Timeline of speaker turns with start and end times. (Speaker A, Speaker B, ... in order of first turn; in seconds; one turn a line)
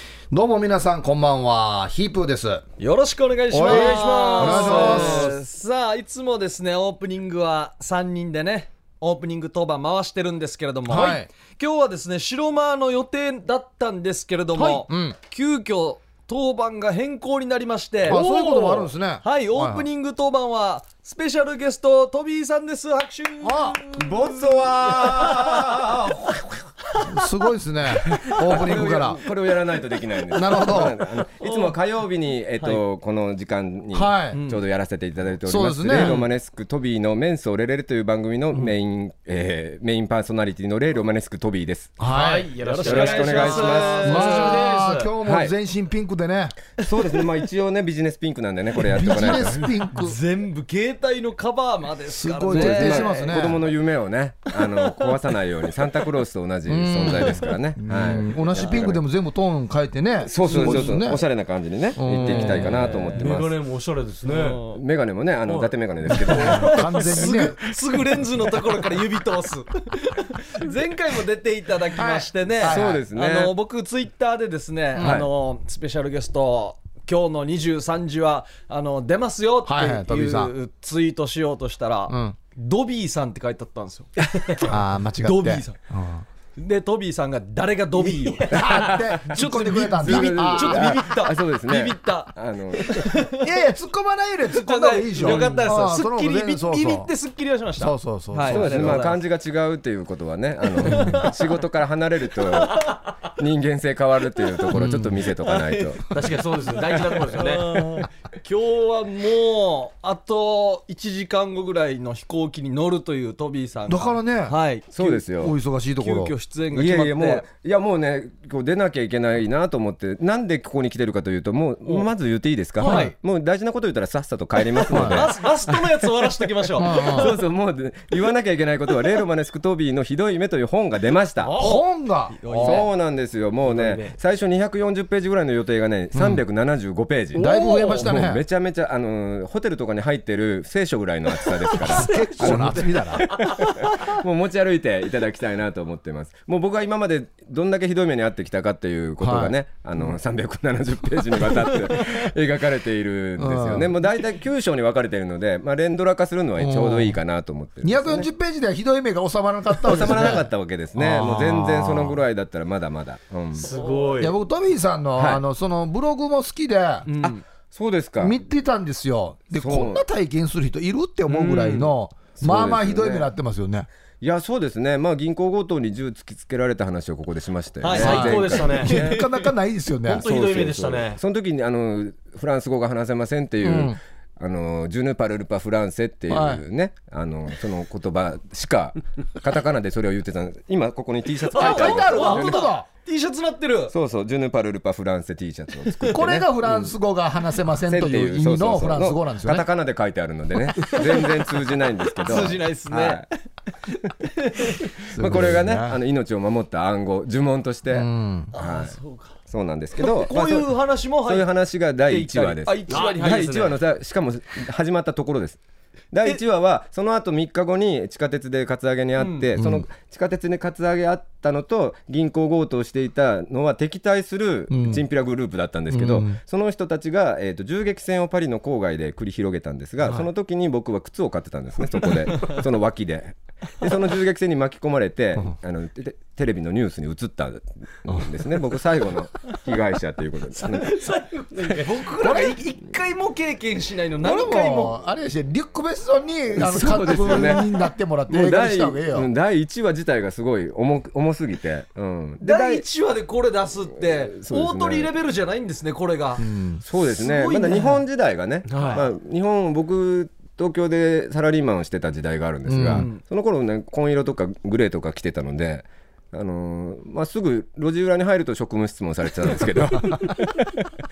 Speaker A: 0.3-2.6
Speaker B: 2.8-25.5
Speaker A: 3.5-5.4
Speaker C: 3.6-5.3
Speaker A: 10.9-11.3
Speaker C: 14.6-14.8
Speaker A: 14.9-15.2
Speaker A: 18.1-19.9
Speaker A: 23.4-23.8
Speaker D: 23.9-26.6
Speaker A: 27.0-29.2
Speaker D: 28.4-42.0
Speaker A: 30.3-31.0
Speaker B: 31.4-31.7
Speaker A: 33.9-34.4
Speaker B: 34.3-34.6
Speaker A: 35.5-36.1
Speaker B: 36.0-36.2
Speaker A: 42.0-42.5
Speaker C: 42.1-45.1
Speaker B: 42.6-44.6
Speaker D: 42.8-44.2
Speaker A: 44.0-46.6
Speaker D: 45.2-45.5
Speaker D: 46.8-49.7
Speaker A: 48.9-50.2
Speaker B: 48.9-53.4
Speaker A: 52.1-53.6
Speaker D: 52.5-59.0
Speaker B: 54.6-55.0
Speaker A: 56.7-61.3
Speaker B: 58.5-58.9
Speaker D: 60.2-63.5
Speaker B: 60.5-61.0
Speaker A: 62.0-63.1
Speaker B: 62.5-63.3
Speaker C: 63.1-64.6
Speaker B: 64.3-64.8
Speaker D: 64.7-66.8
Speaker C: 65.5-65.7
Speaker B: 66.2-85.8
Speaker A: 66.4-67.6
Speaker A: 72.0-73.1
Speaker D: 72.6-73.5
Speaker A: 75.0-75.3
Speaker D: 75.0-75.3
Speaker A: 79.7-80.5
Speaker A: 82.1-82.4
Speaker A: 84.6-86.2
Speaker B: 86.6-93.5
Speaker A: 88.5-91.0
Speaker D: 88.5-89.2
Speaker D: 90.0-93.2
Speaker A: 93.4-97.1
Speaker B: 94.5-99.2
Speaker A: 97.8-99.0
Speaker D: 98.5-106.0
Speaker B: 100.8-101.3
Speaker B: 102.6-103.0
Speaker A: 104.7-105.3
Speaker B: 105.4-106.0
Speaker C: 106.1-107.9
Speaker B: 107.3-115.2
Speaker A: 113.9-114.6
Speaker D: 114.9-115.6
Speaker A: 115.3-116.3
Speaker B: 116.0-117.5
Speaker D: 116.7-126.1
Speaker B: 122.8-123.1
Speaker A: 122.8-123.1
Speaker B: 124.9-127.3
Speaker A: 124.9-125.3
Speaker A: 126.8-127.3
Speaker D: 126.8-131.6
Speaker A: 131.6-132.9
Speaker B: 131.6-132.9
Speaker D: 132.6-158.3
Speaker C: 133.7-134.2
Speaker A: 136.1-136.4
Speaker A: 137.3-138.4
Speaker C: 141.8-142.6
Speaker A: 141.9-143.3
Speaker C: 143.3-144.0
Speaker A: 149.2-149.6
Speaker A: 153.4-153.9
Speaker A: 156.6-157.2
Speaker A: 157.8-162.2
Speaker D: 159.8-163.7
Speaker C: 163.6-164.3
Speaker A: 164.2-167.1
Speaker D: 165.2-165.4
Speaker B: 167.1-167.4
Speaker D: 167.2-168.4
Speaker A: 168.2-173.9
Speaker D: 169.6-170.0
Speaker C: 171.3-171.9
Speaker D: 172.4-173.3
Speaker D: 174.2-179.2
Speaker B: 177.8-179.5
Speaker C: 177.9-179.0
Speaker A: 178.0-180.3
Speaker C: 180.1-181.2
Speaker D: 180.2-192.7
Speaker A: 183.6-184.0
Speaker A: 186.3-186.6
Speaker B: 191.5-193.9
Speaker A: 191.5-192.9
Speaker D: 193.9-196.9
Speaker A: 196.1-199.7
Speaker D: 197.8-203.2
Speaker B: 202.2-203.3
Speaker B: 204.2-204.8
Speaker A: 205.1-206.0
Speaker D: 205.2-215.6
Speaker A: 207.9-208.5
Speaker B: 208.5-209.4
Speaker B: 210.0-213.6
Speaker C: 212.9-213.8
Speaker D: 216.1-241.0
Speaker B: 219.2-219.5
Speaker A: 219.6-219.9
Speaker A: 224.7-225.0
Speaker A: 225.9-226.4
Speaker B: 240.6-245.0
Speaker C: 241.5-241.9
Speaker A: 242.2-242.6
Speaker A: 244.2-249.3
Speaker B: 246.6-247.7
Speaker D: 247.0-247.7
Speaker D: 248.3-252.8
Speaker B: 252.4-258.0
Speaker D: 254.0-255.1
Speaker A: 256.4-256.8
Speaker D: 256.8-270.7
Speaker C: 258.7-259.1
Speaker B: 258.7-259.0
Speaker A: 262.7-263.1
Speaker B: 262.9-263.2